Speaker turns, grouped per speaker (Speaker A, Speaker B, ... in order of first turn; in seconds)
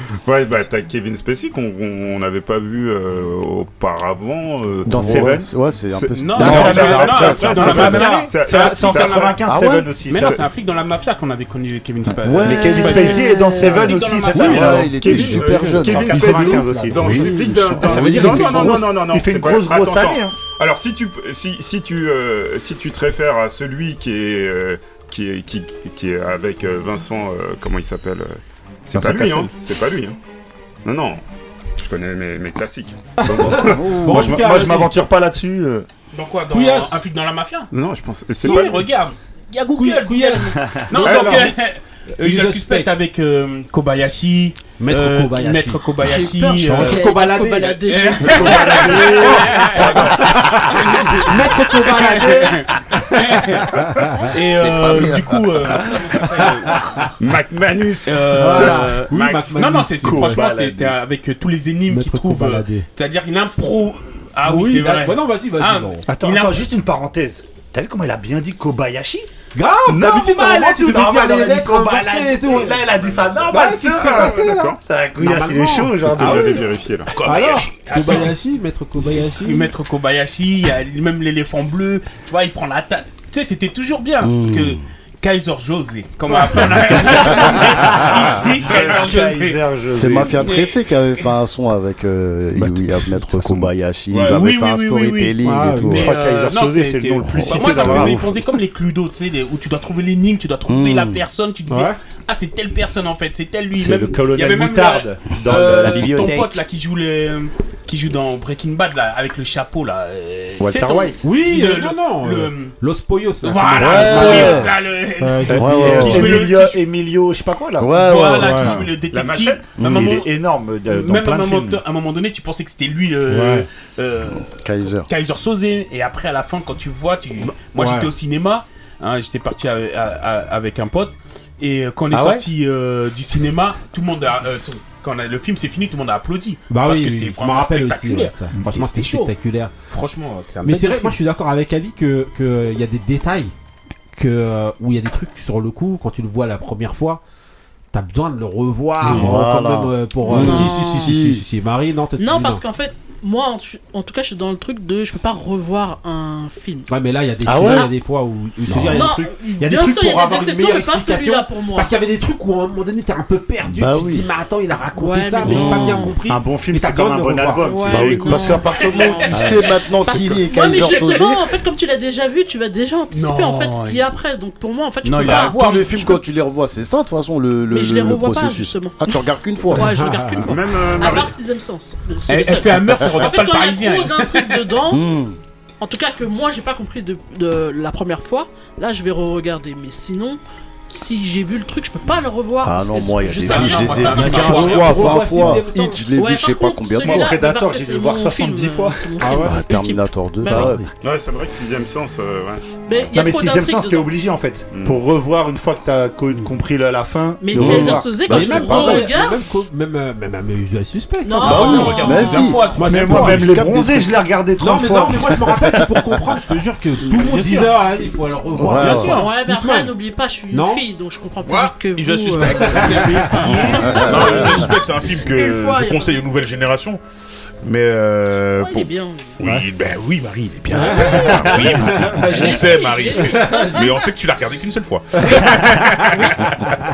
Speaker A: 0.2-9.4, 10.2-10.4, 14.9-30.2, 30.8-31.2, 31.8-33.8, 37.7-38.9, 41.1-41.4, 49.8-50.6, 57.2-59.4, 60.1-60.4, 72.7-74.8, 76.0-77.1, 170.1-170.4, 180.4-181.4, 201.0-202.6, 204.7-205.0
Speaker B: 4.8-5.5, 6.4-10.5, 12.4-20.4, 33.5-35.9, 40.5-40.9, 48.3-49.6, 60.1-60.9, 66.1-69.3, 69.8-76.7, 86.9-90.5, 92.6-93.7, 96.0-98.2, 103.7-106.6, 110.6-111.2, 115.5-121.8, 166.3-168.7, 197.0-199.1, 200.4-200.8, 203.1-208.1, 212.8-215.4
Speaker C: 4.9-8.1, 9.4-9.9, 12.2-18.8, 28.9-29.4, 33.8-34.4, 54.5-55.2, 84.2-84.8, 89.9-96.1, 97.3-98.3, 100.7-101.2, 113.8-114.7, 115.6-116.4, 117.8-118.8, 119.8-120.2, 124.3-125.1, 149.0-151.4, 157.4-157.9, 158.7-159.1, 163.7-164.2, 165.4-166.1, 167.9-171.4, 175.2-179.9, 184.9-185.4, 192.6-197.4, 199.4-200.9, 207.5-209.1, 211.4-214.1, 218.6-219.2, 223.6-224.7
Speaker D: 6.1-9.3, 10.1-14.9, 36.1-37.7, 38.4-47.2, 47.8-50.4, 52.0-53.7, 54.3-56.8, 58.0-66.7, 77.8-78.3, 79.3-89.6, 90.4-91.3, 94.3-95.3, 95.9-112.7, 113.4-116.8, 118.0-120.3, 120.9-139.3, 139.9-141.2, 173.1-174.1, 175.0-175.9, 182.3-184.8, 193.3-195.2, 211.4-213.4, 217.2-217.7, 218.7-219.3
Speaker E: 14.6-18.4, 33.2-34.9, 36.5-37.0, 38.4-38.8, 39.8-41.5, 42.2-42.9, 44.8-54.3, 58.3-60.4, 61.9-62.9, 64.4-66.0, 69.5-72.8, 73.5-76.6, 77.2-79.7, 95.4-96.0, 101.7-101.9, 111.2-116.3, 118.4-118.8, 123.3-123.7, 127.7-128.1, 132.1-132.4, 136.7-139.7, 140.7-143.5, 144.1-147.2, 147.9-152.6, 156.9-168.4, 179.8-180.5, 193.8-196.1, 199.2-199.6, 207.6-213.6, 214.6-219.9, 220.5-220.8, 222.3-224.4, 230.7-233.9, 235.2-236.7
Speaker F: 46.0-49.2, 150.3-151.2, 152.2-156.9, 157.6-157.9, 158.8-161.9, 164.9-166.1, 167.6-176.2, 177.7-185.0, 185.8-194.7, 196.1-200.8, 202.8-204.1, 207.4-209.4, 211.2-212.7, 219.1-226.2, 228.6-229.4, 231.0-231.7, 232.3-234.1
Speaker G: 77.1-78.2, 94.1-94.4, 221.4-227.0, 227.6-236.8